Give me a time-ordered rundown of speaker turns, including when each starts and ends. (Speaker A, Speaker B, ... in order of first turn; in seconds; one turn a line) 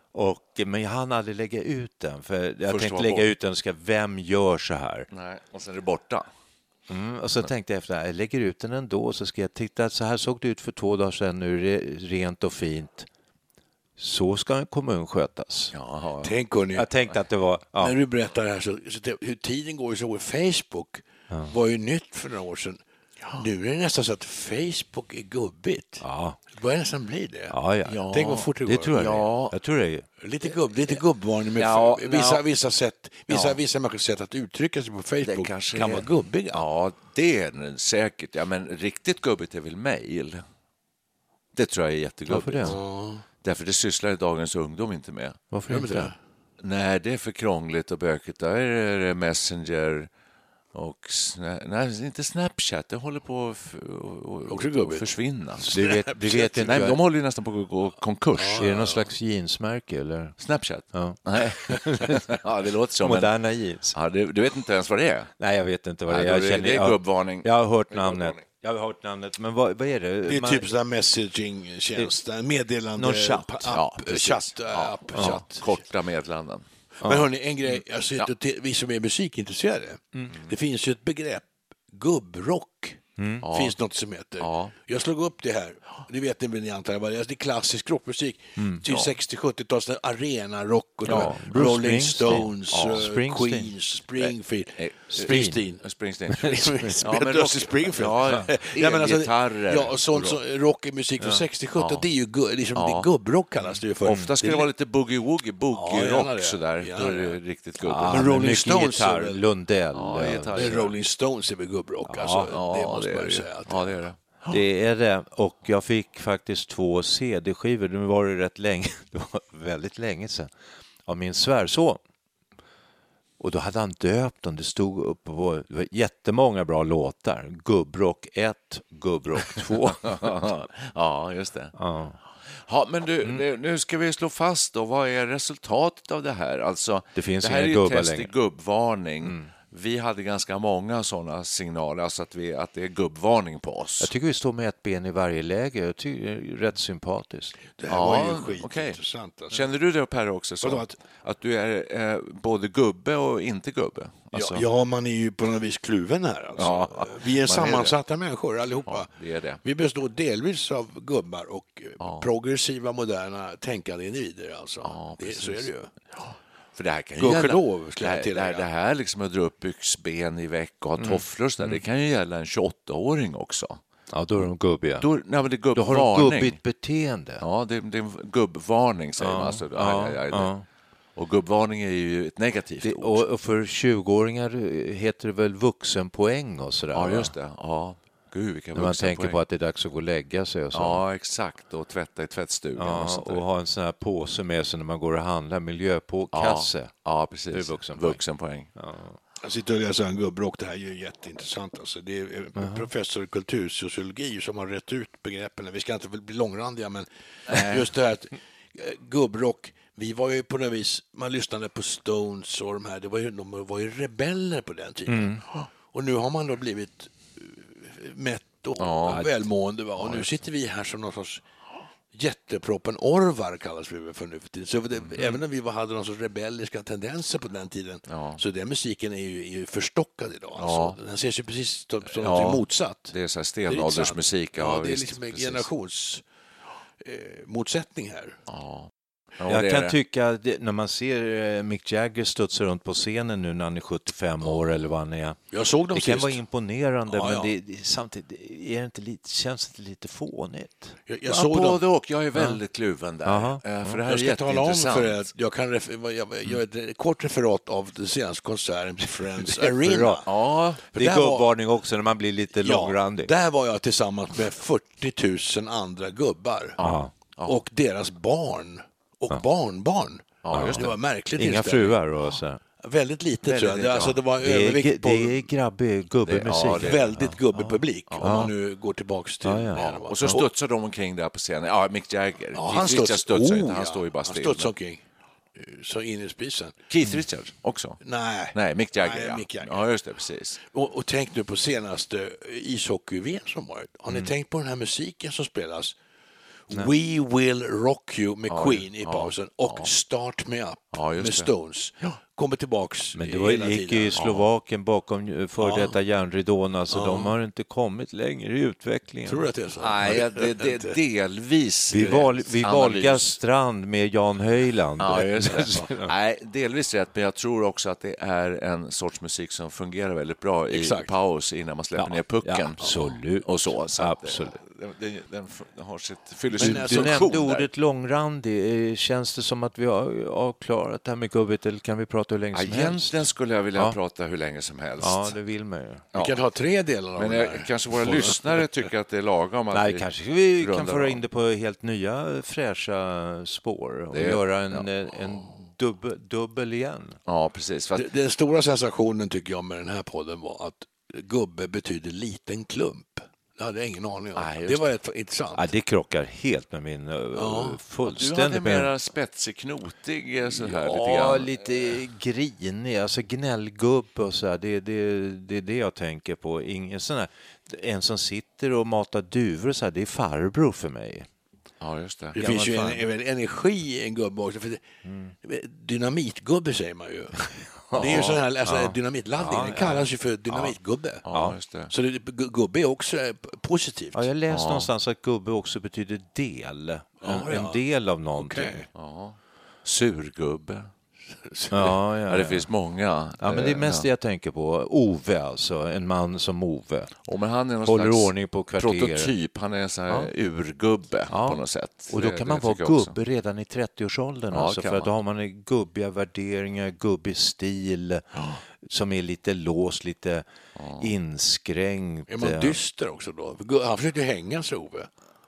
Speaker A: 0.1-5.1
Speaker B: 2.7-3.3
Speaker B: 5.1-6.3
Speaker A: 6.9-13.1
Speaker A: 14.0-15.7
Speaker B: 15.7-16.4
Speaker C: 16.2-16.9
Speaker A: 16.8-18.0
Speaker C: 17.8-22.8
Speaker C: 23.4-27.6
Speaker A: 26.0-26.4
Speaker A: 27.5-28.0
Speaker B: 27.9-29.6
Speaker C: 28.1-29.0
Speaker A: 28.6-30.1
Speaker C: 30.2-36.6
Speaker B: 31.6-32.4
Speaker B: 33.3-33.6
Speaker B: 35.2-40.4
Speaker B: 41.5-42.8
Speaker A: 42.3-42.8
Speaker C: 42.6-43.2
Speaker B: 43.4-45.4
Speaker A: 45.5-46.1
Speaker C: 45.7-46.1
Speaker B: 46.6-50.1
Speaker B: 50.8-55.8
Speaker C: 54.5-56.8
Speaker A: 55.7-57.0
Speaker B: 56.6-58.7
Speaker C: 58.4-59.1
Speaker A: 58.6-60.4
Speaker B: 60.4-63.3
Speaker A: 60.9-62.2
Speaker A: 63.0-64.0
Speaker B: 63.9-65.3
Speaker A: 65.4-70.7
Speaker B: 66.1-68.4
Speaker C: 70.3-75.8
Speaker A: 73.0-73.8
Speaker B: 73.7-76.7
Speaker A: 75.1-75.4
Speaker C: 77.0-95.8
Speaker A: 83.2-83.5
Speaker B: 83.4-83.8
Speaker B: 84.4-84.7
Speaker A: 88.6-88.8
Speaker B: 88.9-89.1
Speaker A: 91.0-93.7
Speaker B: 91.1-91.3
Speaker B: 92.2-93.1
Speaker B: 94.2-95.3
Speaker A: 95.1-95.6
Speaker B: 95.8-100.4
Speaker C: 96.4-104.7
Speaker A: 96.6-96.9
Speaker B: 101.8-102.1
Speaker B: 102.8-103.1
Speaker B: 103.7-108.3
Speaker C: 105.7-107.4
Speaker A: 107.8-110.9
Speaker C: 108.0-109.4
Speaker B: 110.0-110.9
Speaker C: 110.5-114.0
Speaker A: 112.1-112.5
Speaker B: 112.4-114.5
Speaker A: 114.5-120.5
Speaker A: 121.1-122.0
Speaker A: 123.4-130.5
Speaker B: 129.6-131.8
Speaker A: 131.8-132.2
Speaker B: 132.6-144.1
Speaker A: 137.2-138.3
Speaker A: 139.2-139.5
Speaker A: 144.0-147.6
Speaker C: 147.8-149.6
Speaker B: 147.9-149.0
Speaker B: 149.5-154.6
Speaker C: 150.6-150.9
Speaker C: 154.3-159.1
Speaker B: 156.6-157.9
Speaker B: 158.9-159.6
Speaker C: 159.6-165.9
Speaker B: 162.0-162.3
Speaker B: 164.8-173.8
Speaker C: 167.2-168.7
Speaker A: 171.0-171.8
Speaker A: 174.1-175.1
Speaker B: 175.0-176.6
Speaker A: 175.7-177.4
Speaker B: 177.4-180.5
Speaker A: 179.2-180.6
Speaker B: 181.2-183.2
Speaker A: 182.8-187.3
Speaker B: 186.9-189.4
Speaker A: 188.8-191.0
Speaker B: 190.7-193.4
Speaker A: 192.8-196.9
Speaker B: 196.3-198.7
Speaker A: 197.5-198.2
Speaker A: 198.8-199.2
Speaker C: 199.4-215.4
Speaker A: 202.6-202.9
Speaker B: 207.5-207.9
Speaker A: 215.1-215.4
Speaker C: 215.9-221.4
Speaker B: 218.8-219.4
Speaker B: 220.0-220.3
Speaker C: 222.1-233.1
Speaker B: 225.1-225.4
Speaker B: 228.1-228.4
Speaker B: 230.6-231.0
Speaker B: 232.2-235.7
Speaker C: 233.7-236.2
Speaker C: 237.0-238.4
Speaker B: 238.5-240.0
Speaker A: 239.5-245.4
Speaker C: 245.5-246.4
Speaker A: 245.9-251.0
Speaker C: 247.1-247.5
Speaker C: 251.1-251.8
Speaker B: 251.3-255.3
Speaker A: 253.3-253.9
Speaker C: 254.1-260.3
Speaker A: 259.6-260.2
Speaker B: 260.3-260.9
Speaker C: 260.9-261.5
Speaker A: 261.0-263.3
Speaker C: 262.6-266.8
Speaker B: 266.8-267.6
Speaker A: 266.8-267.1
Speaker C: 267.4-272.0
Speaker B: 270.4-271.0
Speaker A: 270.5-272.6
Speaker C: 272.8-275.5
Speaker B: 273.4-274.2
Speaker A: 274.4-278.5
Speaker B: 276.3-277.1
Speaker C: 276.7-280.5
Speaker B: 278.1-278.5
Speaker A: 279.4-280.4
Speaker B: 279.8-284.7
Speaker C: 282.6-285.0
Speaker C: 285.6-286.8
Speaker B: 286.9-288.0
Speaker C: 288.0-289.9
Speaker B: 288.5-290.6
Speaker C: 290.7-295.9
Speaker C: 296.7-304.2
Speaker B: 298.5-299.9
Speaker B: 300.9-301.5
Speaker A: 303.1-309.4
Speaker B: 304.1-304.4
Speaker C: 305.6-306.0
Speaker C: 306.9-307.4
Speaker C: 309.3-310.9
Speaker B: 309.8-313.4
Speaker A: 311.9-316.1
Speaker C: 312.0-312.3
Speaker B: 315.0-327.7
Speaker C: 320.7-321.1
Speaker A: 322.0-324.6
Speaker C: 322.8-323.1
Speaker C: 326.6-327.3
Speaker A: 326.6-333.1
Speaker B: 332.5-335.4
Speaker A: 335.0-336.1
Speaker C: 336.1-338.6
Speaker B: 337.2-340.1
Speaker A: 339.7-347.2
Speaker B: 340.6-341.2
Speaker B: 344.1-344.9
Speaker B: 347.3-348.1
Speaker C: 347.9-355.7
Speaker B: 354.4-354.9
Speaker A: 355.6-358.9
Speaker C: 357.4-357.8
Speaker B: 358.0-361.6
Speaker A: 360.6-371.3
Speaker B: 371.8-372.4
Speaker C: 372.3-374.8
Speaker A: 372.4-373.0
Speaker A: 375.1-375.4
Speaker C: 375.4-381.2
Speaker A: 377.9-380.0
Speaker B: 377.9-378.5
Speaker B: 379.4-380.1
Speaker A: 380.5-380.7
Speaker B: 381.3-381.9
Speaker C: 381.9-384.3
Speaker A: 384.1-388.8
Speaker B: 384.5-384.9
Speaker C: 387.2-387.8
Speaker C: 388.4-388.9
Speaker B: 388.9-390.9
Speaker C: 391.5-391.9
Speaker A: 391.7-392.7
Speaker B: 392.3-394.1
Speaker A: 393.4-397.1
Speaker B: 397.3-403.2
Speaker A: 397.9-399.3
Speaker A: 401.3-408.3
Speaker B: 404.5-405.1
Speaker A: 408.8-410.4
Speaker B: 410.8-411.1
Speaker A: 411.0-412.8
Speaker C: 412.3-415.1